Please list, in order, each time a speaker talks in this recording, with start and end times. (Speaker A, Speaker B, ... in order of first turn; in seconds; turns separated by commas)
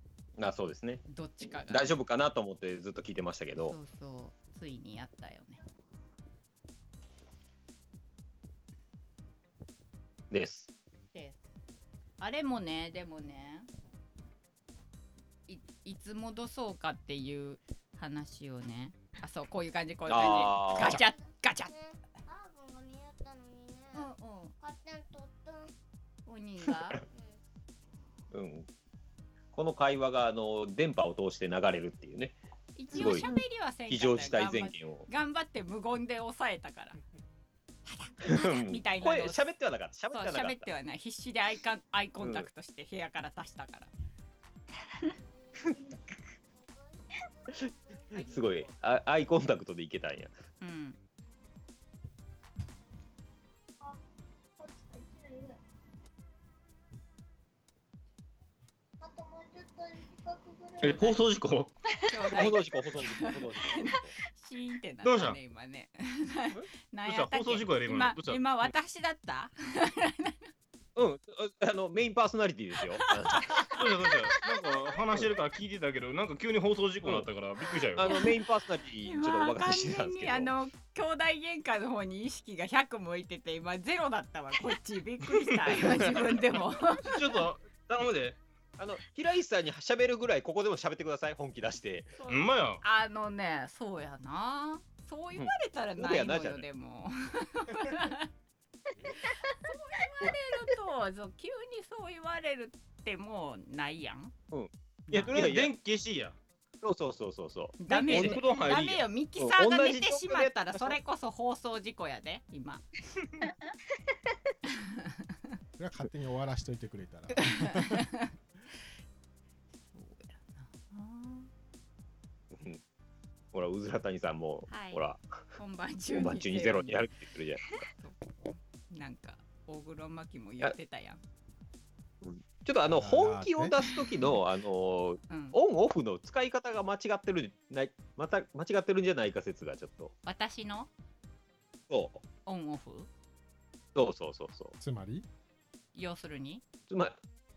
Speaker A: 0.4-3.8, Speaker B: 1.1-1.9, Speaker B: 3.6-5.6, Speaker A: 10.3-10.7, Speaker B: 11.1-11.4, Speaker B: 12.2-13.7, Speaker B: 15.5-21.8, Speaker A: 20.1-21.0, Speaker B: 23.9-24.5, Speaker B: 26.2-27.0, Speaker A: 28.3-28.7, Speaker A: 29.5-32.4, Speaker B: 32.7-37.0, Speaker A: 32.9-33.3, Speaker C: 33.0-33.3, Speaker A: 33.9-35.1, Speaker B: 37.9-39.4, Speaker A: 38.2-40.7, Speaker B: 40.1-43.9, Speaker A: 42.2-42.5, Speaker A: 47.5-50.3, Speaker B: 50.6-51.0, Speaker C: 54.6-55.5, Speaker C: 59.0-60.9, Speaker D: 60.8-61.7, Speaker B: 62.1-70.5, Speaker A: 62.3-64.2, Speaker D: 65.0-65.4, Speaker D: 67.0-68.4, Speaker A: 71.0-73.8, Speaker B: 72.9-73.8, Speaker D: 73.7-78.1, Speaker A: 77.9-80.5, Speaker B: 78.0-78.4, Speaker B: 79.0-87.2, Speaker D: 85.5-86.1, Speaker D: 87.0-88.4, Speaker A: 88.8-92.2, Speaker B: 92.2-98.3, Speaker D: 92.3-92.8, Speaker A: 95.3-96.6, Speaker B: 99.2-104.3, Speaker A: 104.5-105.7, Speaker D: 105.1-106.4, Speaker A: 106.8-108.4, Speaker B: 107.8-112.8, Speaker D: 107.9-109.0, Speaker A: 109.4-111.0, Speaker E: 115.8-118.0, Speaker B: 117.4-118.3, Speaker B: 119.9-121.5, Speaker A: 122.5-122.8, Speaker A: 123.5-125.2, Speaker B: 124.7-125.0, Speaker B: 125.6-127.1, Speaker A: 126.1-127.6, Speaker B: 127.9-131.2, Speaker A: 132.2-140.1, Speaker E: 132.9-133.8, Speaker B: 135.3-135.6, Speaker B: 140.2-140.9, Speaker A: 141.9-142.2, Speaker B: 142.4-143.1, Speaker A: 143.9-144.7, Speaker E: 144.8-145.2, Speaker B: 145.9-146.6, Speaker A: 146.9-147.2